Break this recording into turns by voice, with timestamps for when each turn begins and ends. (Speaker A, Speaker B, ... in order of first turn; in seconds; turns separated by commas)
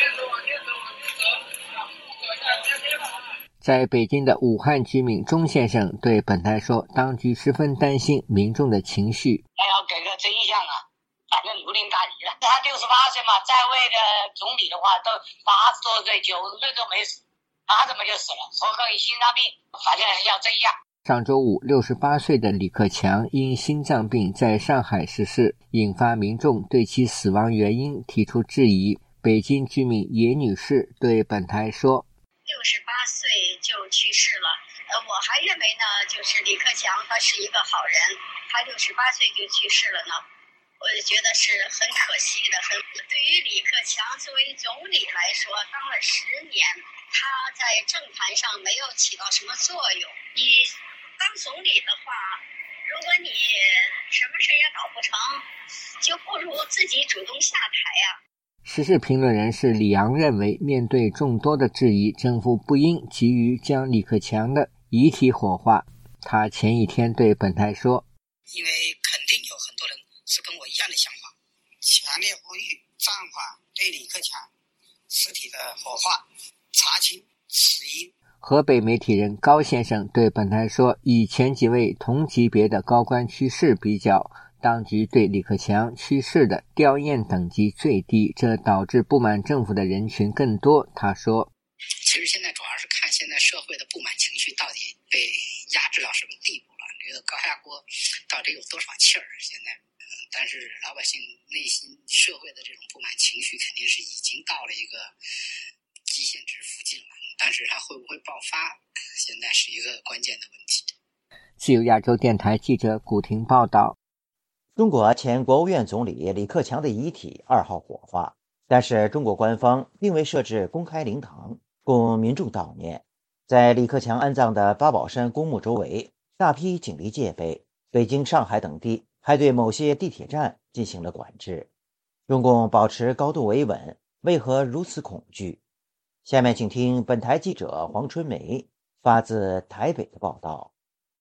Speaker A: 3.6-9.4, Speaker B: 9.6-20.7, Speaker A: 21.0-32.1, Speaker C: 32.5-40.2, Speaker C: 40.8-55.4, Speaker C: 56.0-58.1, Speaker A: 58.6-68.0, Speaker D: 68.5-74.5, Speaker D: 75.1-78.1, Speaker A: 78.4-91.5, Speaker D: 92.0-99.8, Speaker D: 100.3-105.1, Speaker D: 106.1-110.9, Speaker A: 111.6-114.0, Speaker E: 114.8-131.7, Speaker E: 132.3-135.6, Speaker E: 136.2-140.7